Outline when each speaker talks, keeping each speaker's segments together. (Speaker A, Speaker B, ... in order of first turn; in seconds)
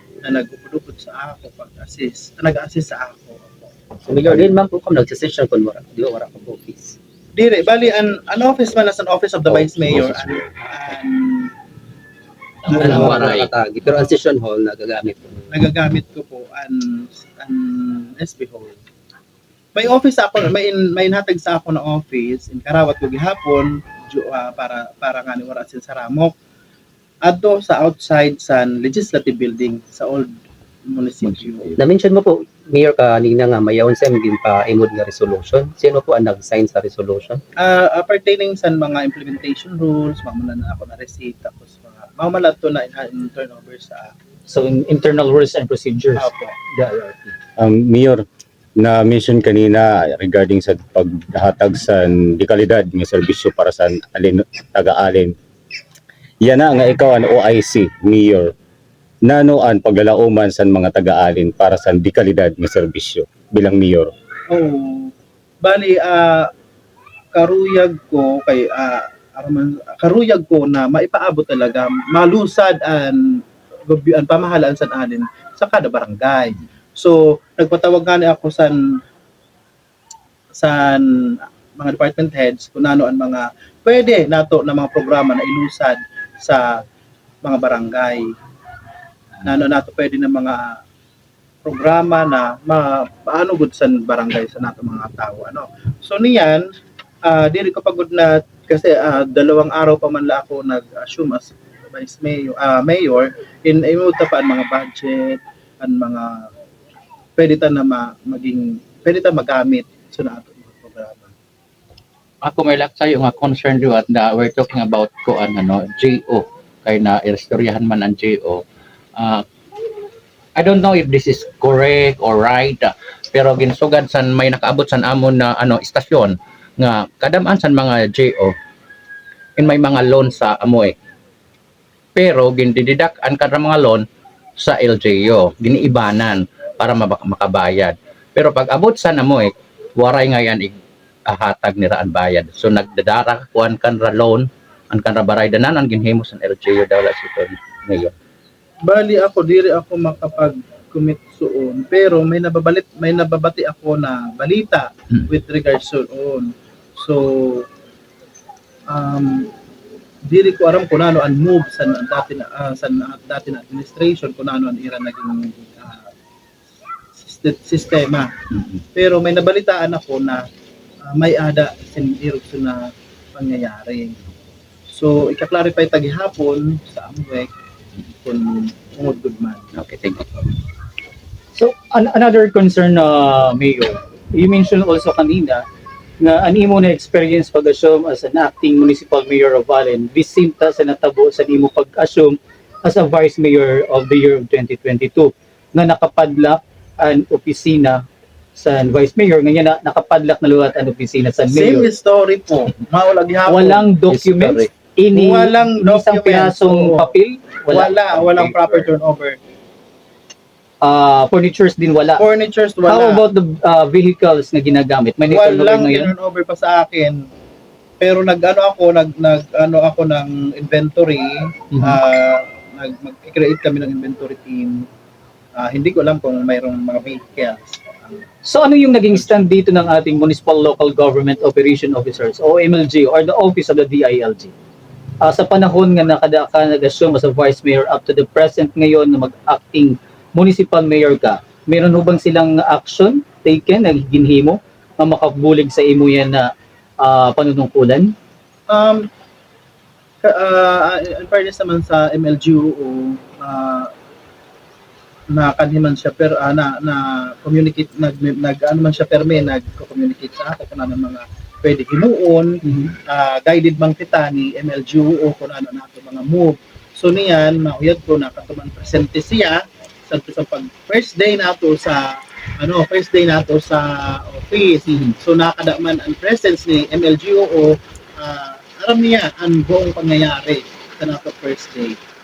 Speaker A: 0.2-3.7, 7.3-11.5, 12.7-13.3, 15.5-18.8, 19.7-26.3, 27.2-30.3, 30.9-31.8, 37.6-44.1, 46.2-46.5, 64.5-66.5, 67.3-79.0, 80.5-86.8, 87.4-88.3, 89.4-90.8, 91.6-96.6, 97.2-106.5, 107.4-111.3, 148.8-157.7, 158.9-159.5, 160.2-166.1, 167.2-168.3, 168.9-170.4, 171.1-174.2, 174.9-177.5, 178.2-179.6, 201.5-203.9, 205.1-207.1, 207.7-209.4, 212.2-213.2, 215.3-217.3, 218.0-224.9, 225.6-228.2, 248.7-249.1, 250.2-253.9, 255.3-282.0
Speaker B: 4.0-7.0, 9.7-10.4, 12.7-15.4, 31.8-37.4
Speaker C: 12.6-13.5, 112.4-118.6, 119.2-119.4, 120.5-128.5, 129.6-130.9, 132.1-134.0, 134.6-140.8, 141.3-148.1, 179.7-180.4, 204.1-204.7, 208.1-208.8
Speaker D: 44.5-47.1, 181.5-185.6, 186.2-198.0, 198.6-201.9, 203.5-207.9, 210.8-212.2, 212.8-216.1, 228.4-234.5, 235.2-248.1, 262.6-262.9
Speaker E: 47.6-48.2, 48.8-55.3, 56.4-58.5, 59.2-64.1